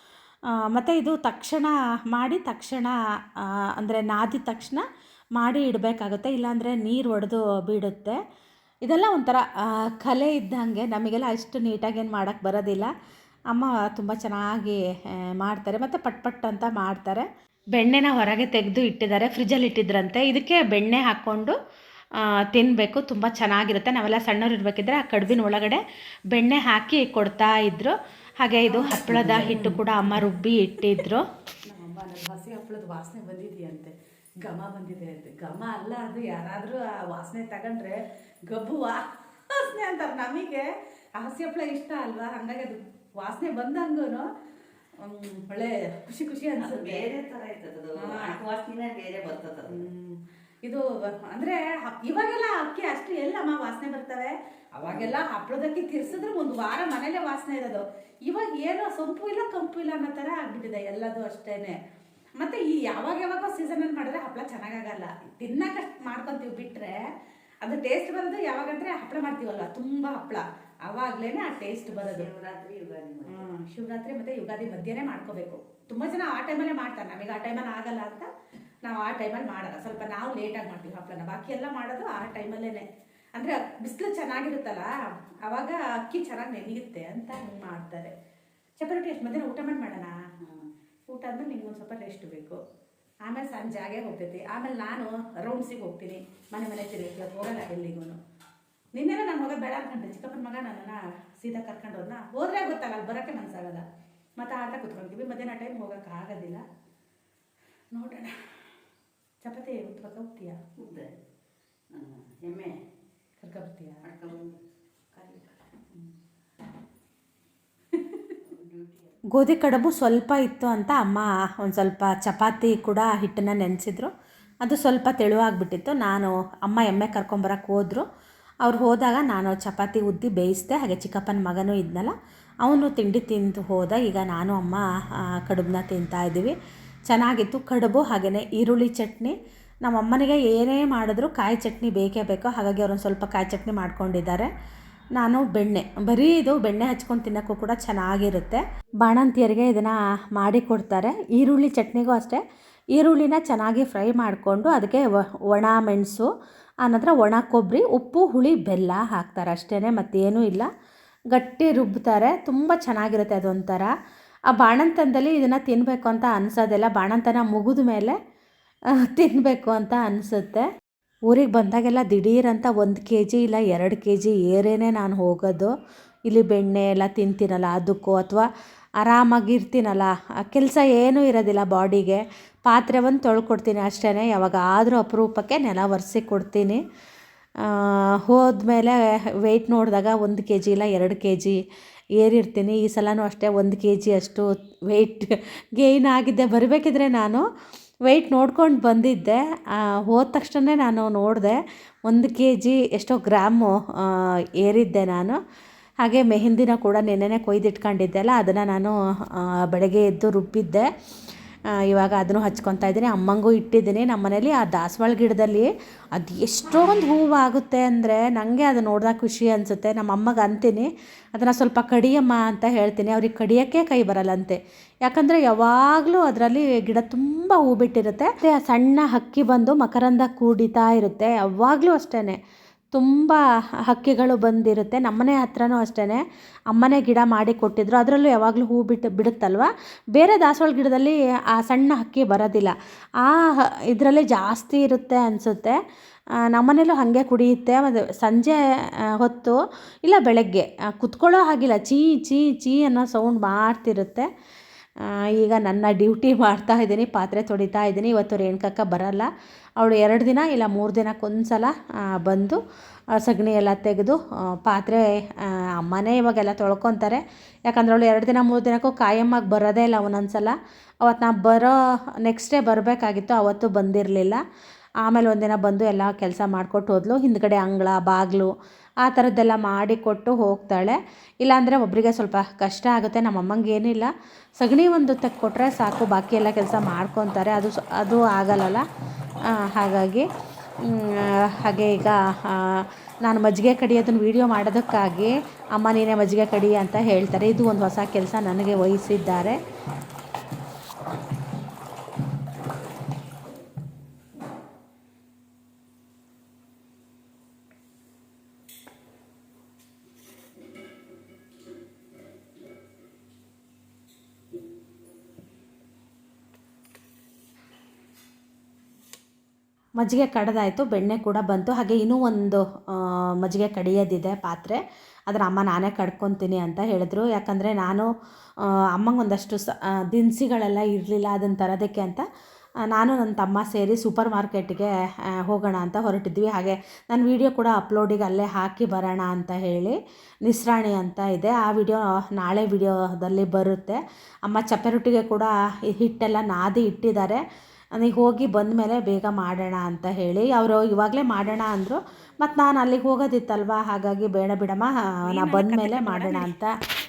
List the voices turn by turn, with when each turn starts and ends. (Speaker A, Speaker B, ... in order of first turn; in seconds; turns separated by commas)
Speaker A: 0.5-8.2, Speaker A: 8.8-12.9, Speaker A: 13.5-21.6, Speaker A: 22.1-31.2, Speaker B: 28.7-29.8, Speaker C: 29.1-29.7, Speaker B: 31.7-44.3, Speaker B: 45.0-47.1, Speaker C: 46.6-49.8, Speaker B: 48.0-48.4, Speaker B: 49.7-61.8, Speaker C: 54.9-55.2, Speaker B: 62.4-67.0, Speaker B: 67.6-72.3, Speaker C: 71.9-73.5, Speaker B: 73.3-78.3, Speaker B: 78.8-84.9, Speaker B: 85.5-88.1, Speaker B: 88.8-90.3, Speaker B: 91.1-92.6, Speaker B: 93.2-98.2, Speaker B: 98.9-103.8, Speaker B: 104.4-106.7, Speaker B: 107.9-108.6, Speaker B: 109.4-110.6, Speaker C: 110.8-111.1, Speaker C: 111.9-112.8, Speaker B: 113.4-114.0, Speaker C: 114.0-114.6, Speaker C: 115.2-115.5, Speaker B: 117.9-118.3, Speaker C: 118.4-119.2, Speaker A: 119.3-128.0, Speaker A: 128.6-136.5, Speaker A: 137.1-144.5, Speaker A: 145.2-152.4, Speaker A: 152.9-156.3, Speaker A: 156.8-160.7, Speaker A: 161.3-163.9, Speaker A: 164.5-168.2, Speaker A: 168.9-170.7, Speaker A: 171.3-175.7, Speaker A: 176.3-178.5, Speaker A: 179.0-186.8, Speaker A: 187.6-191.6, Speaker A: 192.2-197.4, Speaker A: 198.1-205.4, Speaker A: 206.0-210.9, Speaker A: 211.7-232.4, Speaker A: 232.9-245.8, Speaker A: 246.4-254.3, Speaker A: 255.0-262.6, Speaker A: 263.2-274.4, Speaker A: 275.0-278.5, Speaker A: 279.0-288.9, Speaker A: 289.5-290.3, Speaker A: 290.8-299.6, Speaker A: 320.0-328.1, Speaker A: 328.6-332.2, Speaker A: 332.9-347.4, Speaker A: 347.9-356.7, Speaker B: 355.3-356.5